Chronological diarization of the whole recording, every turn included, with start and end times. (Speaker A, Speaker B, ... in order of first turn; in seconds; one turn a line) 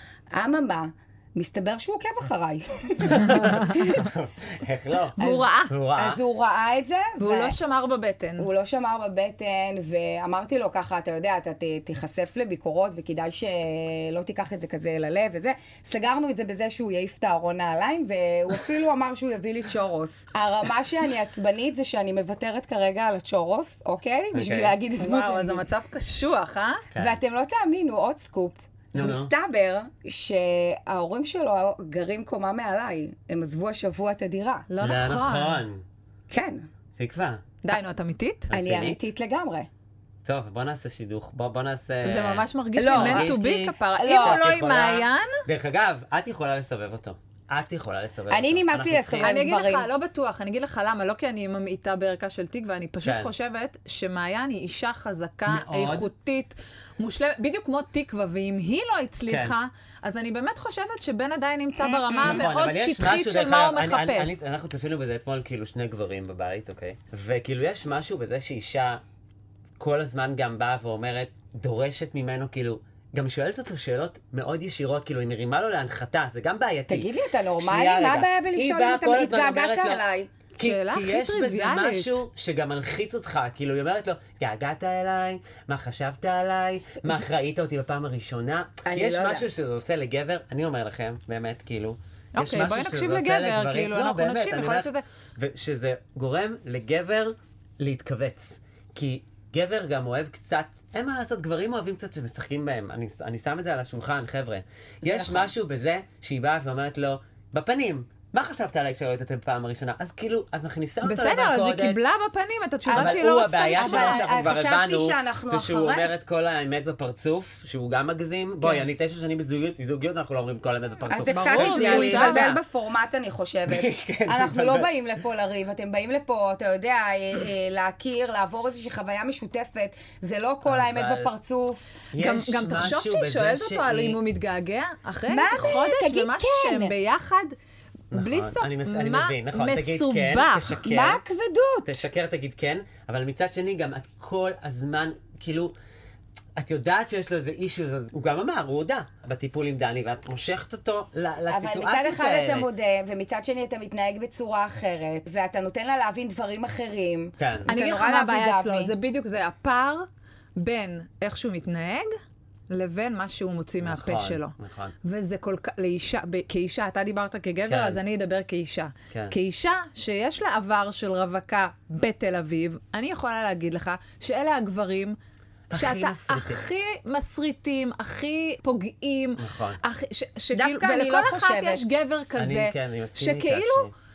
Speaker A: 0.3-4.1
Speaker B: 3.0-6.2
Speaker C: 5.2-5.7
Speaker A: 5.2-7.5
Speaker C: 7.2-8.5
Speaker A: 8.4-25.6
Speaker B: 24.3-24.7
Speaker C: 25.0-26.8
Speaker A: 27.0-34.7
Speaker B: 28.9-29.3
Speaker C: 34.7-35.6
Speaker B: 34.8-35.8
Speaker A: 36.3-36.6
Speaker B: 37.0-37.4
Speaker C: 37.6-38.5
Speaker B: 38.5-39.0
Speaker A: 38.5-39.7
Speaker B: 40.2-49.4
Speaker C: 42.0-45.4
Speaker A: 42.8-43.3
Speaker A: 44.0-44.4
Speaker A: 48.3-49.9
Speaker C: 49.2-64.4
Speaker B: 55.5-56.1
Speaker B: 59.3-59.5
Speaker A: 61.8-62.4
Speaker B: 62.2-69.0
Speaker B: 69.8-80.0
Speaker A: 76.9-80.3
Speaker B: 80.6-112.0
Speaker C: 80.6-82.2
Speaker A: 88.8-89.5
Speaker C: 92.3-95.0
Speaker A: 105.0-105.5
Speaker C: 111.0-114.3
Speaker A: 112.8-116.1
Speaker B: 112.9-122.6
Speaker A: 121.1-131.8
Speaker C: 121.2-122.5
Speaker B: 123.7-124.9
Speaker B: 130.7-131.3
Speaker B: 132.1-134.2
Speaker C: 132.2-137.6
Speaker A: 135.3-136.9
Speaker C: 138.1-140.8
Speaker B: 138.1-141.2
Speaker A: 140.8-141.9
Speaker B: 141.8-145.7
Speaker B: 146.6-152.7
Speaker A: 151.5-158.9
Speaker B: 157.4-157.7
Speaker C: 157.7-162.1
Speaker C: 162.7-175.2
Speaker B: 163.8-164.9
Speaker B: 167.7-168.0
Speaker B: 175.7-176.6
Speaker C: 175.7-183.9
Speaker B: 179.4-179.8
Speaker A: 180.5-181.9
Speaker B: 182.4-183.9